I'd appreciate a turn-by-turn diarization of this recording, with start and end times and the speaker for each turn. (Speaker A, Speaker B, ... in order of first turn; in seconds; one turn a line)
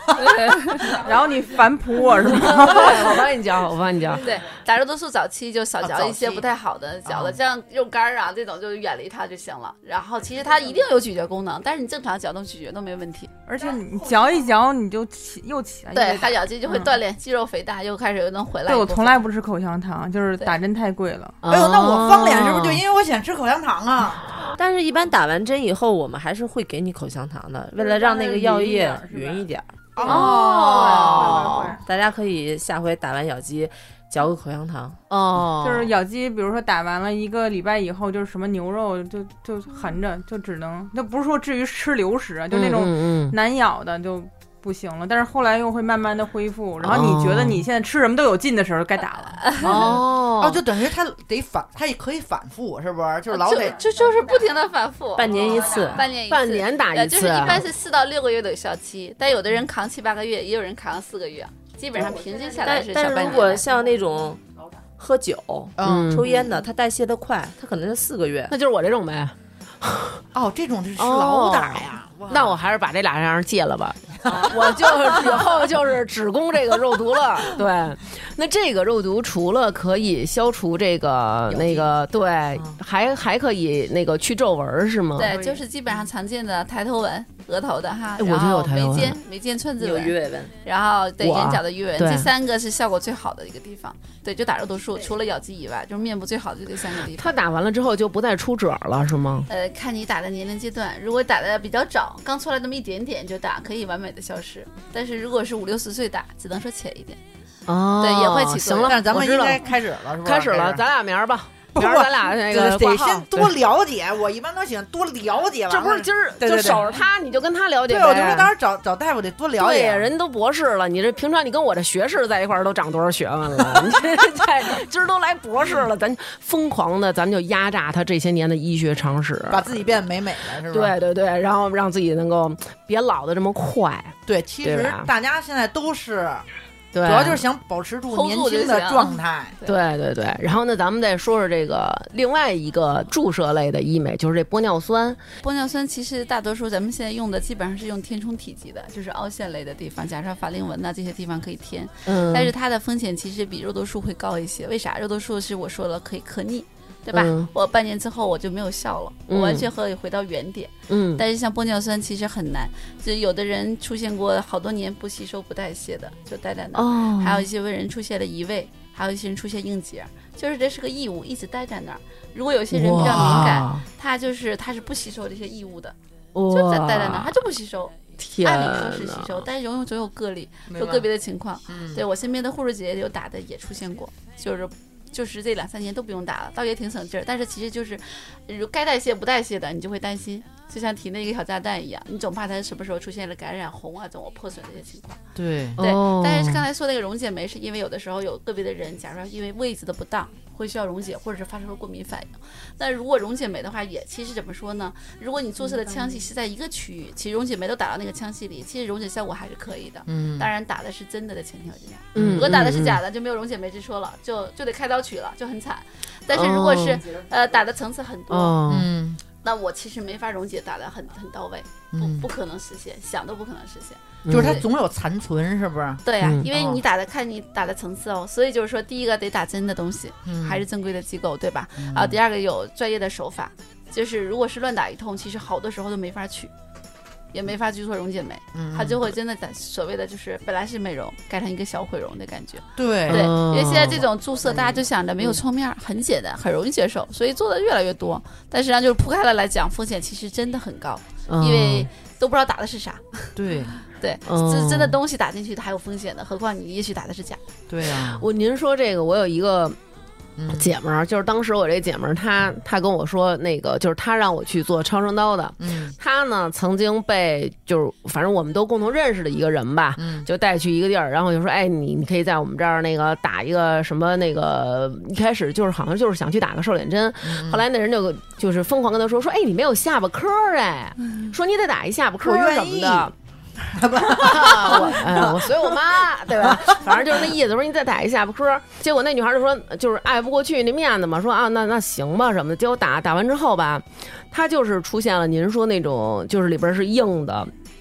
Speaker A: 0.2-1.0
Speaker B: 0.8-3.1
Speaker C: 2.2-4.3
Speaker A: 4.2-13.3
Speaker D: 5.8-6.5
Speaker D: 7.1-7.4
Speaker B: 13.5-17.0
Speaker D: 13.6-14.5
Speaker A: 15.9-19.2
Speaker B: 18.7-21.4
Speaker C: 21.4-22.8
Speaker D: 21.5-24.3
Speaker E: 24.6-29.7
Speaker B: 27.8-29.5
Speaker D: 29.9-31.7
Speaker B: 30.0-31.8
Speaker C: 30.0-31.7
Speaker E: 31.9-35.0
Speaker C: 35.1-35.9
Speaker B: 35.6-49.5
Speaker C: 42.5-43.4
Speaker C: 46.8-47.7
Speaker A: 49.4-49.8
Speaker C: 49.6-50.6
Speaker D: 49.7-53.8
Speaker A: 53.3-63.7
Speaker E: 55.1-56.0
Speaker C: 56.1-57.7
Speaker E: 62.1-64.4
Speaker E: 65.0-68.5
Speaker D: 65.8-66.3
Speaker C: 65.8-66.3
Speaker C: 68.5-70.2
Speaker D: 70.3-72.6
Speaker C: 71.0-85.3
Speaker D: 74.2-75.4
Speaker D: 81.5-81.9
Speaker A: 85.2-97.4
Speaker B: 85.3-85.6
Speaker C: 88.2-89.2
Speaker E: 89.8-90.5
Speaker C: 91.2-92.3
Speaker C: 96.9-99.5
Speaker A: 99.5-107.2
Speaker C: 107.7-113.5
Speaker A: 108.0-109.0
Speaker D: 108.8-110.8
Speaker D: 111.8-117.0
Speaker C: 115.7-118.5
Speaker D: 117.9-120.1
Speaker C: 119.5-130.0
Speaker D: 129.5-131.0
Speaker C: 130.7-135.1
Speaker D: 134.3-136.4
Speaker C: 136.9-137.4
Speaker D: 137.0-139.6
Speaker A: 138.1-139.8
Speaker C: 139.7-145.2
Speaker A: 145.4-175.9
Speaker C: 152.1-152.5
Speaker C: 157.1-157.5
Speaker C: 159.3-159.7
Speaker C: 160.9-161.2
Speaker C: 166.8-167.5
Speaker C: 172.7-173.8
Speaker D: 173.0-173.6
Speaker C: 176.3-177.3
Speaker A: 176.5-195.2
Speaker C: 178.2-179.4
Speaker D: 180.7-181.1
Speaker D: 181.7-182.0
Speaker D: 195.4-195.8
Speaker C: 195.8-196.6
Speaker A: 195.8-218.6
Speaker D: 210.1-210.5
Speaker C: 212.2-213.0
Speaker C: 216.3-217.0
Speaker C: 218.3-218.9
Speaker D: 218.7-219.2
Speaker A: 219.4-224.6
Speaker D: 221.9-222.3
Speaker C: 224.2-224.6
Speaker D: 224.3-226.8
Speaker A: 226.0-236.5
Speaker C: 226.2-226.5
Speaker D: 230.3-230.6
Speaker D: 231.8-232.2
Speaker A: 237.3-257.4
Speaker D: 238.5-239.1
Speaker D: 242.8-243.4
Speaker C: 243.1-244.1
Speaker D: 244.5-244.8
Speaker C: 251.3-251.9
Speaker D: 253.4-253.8
Speaker C: 254.3-255.0
Speaker D: 257.7-258.2
Speaker C: 257.8-259.8
Speaker D: 260.4-260.7
Speaker C: 260.5-283.1
Speaker D: 265.6-266.0
Speaker D: 270.0-270.3
Speaker D: 277.3-277.6
Speaker D: 282.2-285.8
Speaker C: 284.1-297.5
Speaker D: 286.4-287.0